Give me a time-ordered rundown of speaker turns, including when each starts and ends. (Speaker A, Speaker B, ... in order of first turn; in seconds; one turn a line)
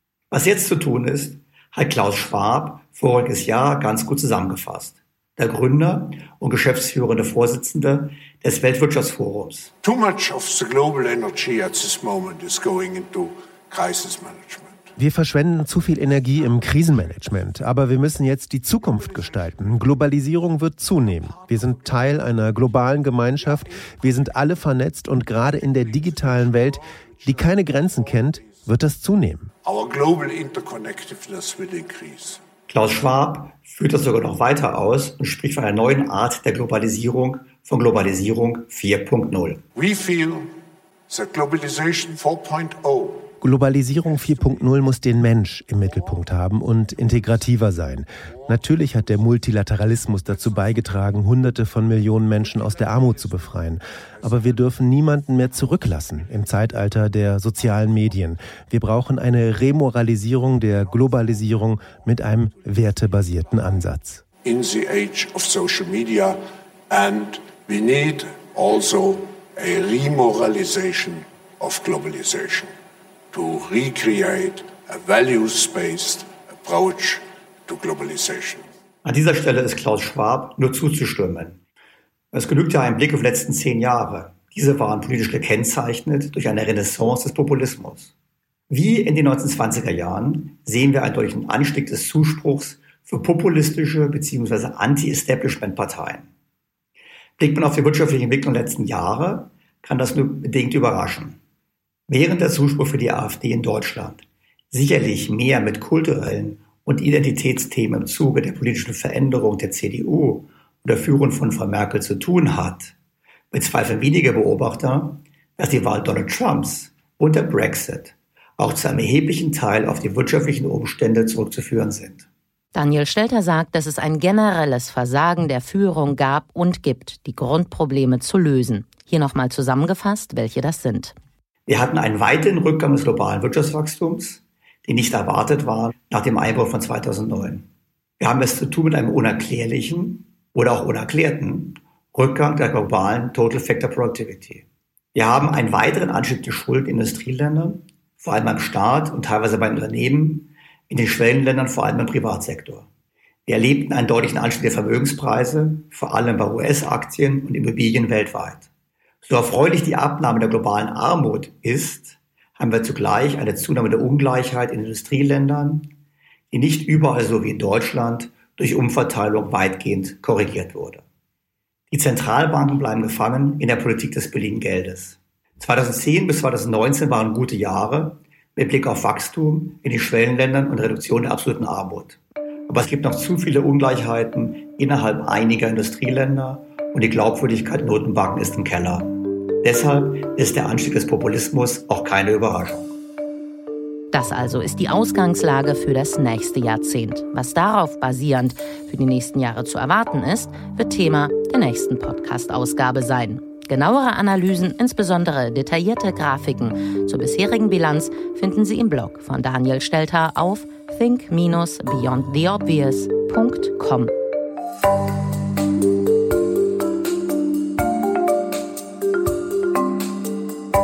Speaker A: 0.3-9.7
Speaker B: 9.8-14.9
Speaker C: 15.0-29.5
Speaker B: 16.4-17.2
Speaker B: 18.8-20.0
Speaker B: 20.8-24.6
Speaker B: 25.2-28.7
Speaker B: 29.6-32.4
Speaker A: 32.7-39.6
Speaker B: 39.7-43.4
Speaker C: 43.4-64.2
Speaker B: 44.0-45.0
Speaker B: 45.8-47.6
Speaker B: 48.3-49.4
Speaker B: 50.0-51.5
Speaker B: 52.2-54.9
Speaker B: 61.1-61.9
Speaker B: 64.4-72.7
Speaker B: 73.3-78.7
Speaker A: 79.0-81.6
Speaker A: 82.3-88.1
Speaker A: 88.7-96.3
Speaker A: 97.4-101.4
Speaker A: 102.1-112.9
Speaker A: 113.5-122.2
Speaker D: 122.7-131.1
Speaker A: 131.7-137.7
Speaker A: 138.2-144.6
Speaker A: 145.1-152.9
Speaker A: 153.5-158.7
Speaker A: 159.2-165.9
Speaker A: 166.5-171.0
Speaker A: 171.9-192.9
Speaker D: 194.1-214.1